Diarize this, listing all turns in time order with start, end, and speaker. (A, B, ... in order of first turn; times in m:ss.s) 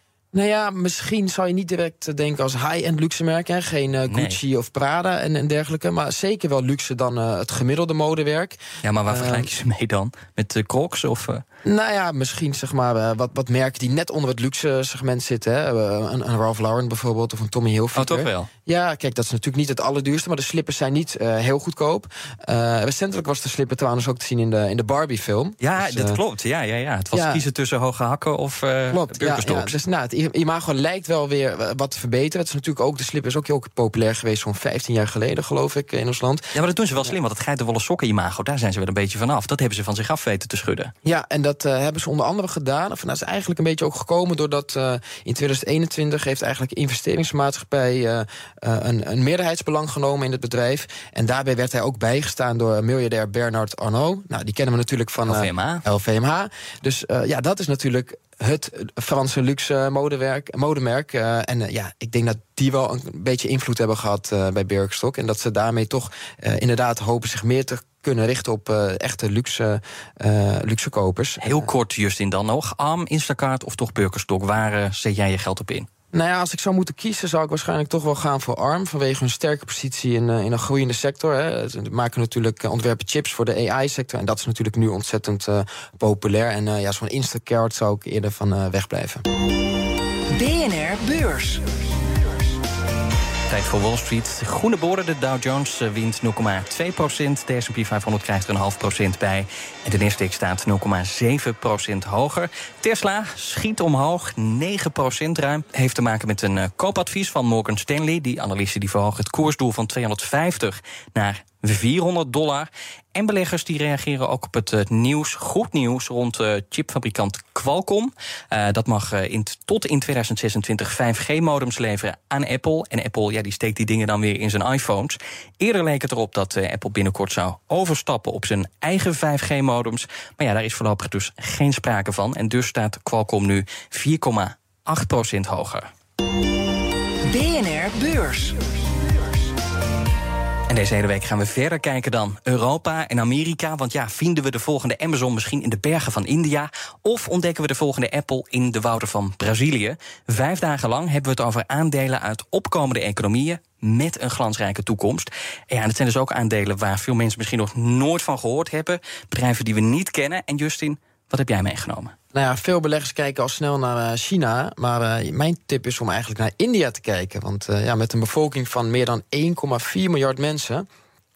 0:00.3-0:09.5 A
0:04.1-0:04.4 B
0:08.8-0:11.4 B
0:11.6-0:26.2 A
0:18.0-0:18.5 B
0:25.6-0:29.8 B
0:27.1-0:27.4 A
0:28.9-0:37.1 A
0:36.5-0:40.9 B
0:41.0-1:11.7 A
0:55.3-0:55.8 B
1:11.4-1:15.9 B
1:16.1-1:29.2 A
1:30.3-1:31.6 C
1:33.5-2:15.9 B
2:17.3-2:18.6 C
2:20.7-2:42.1 B
2:42.3-2:50.8 A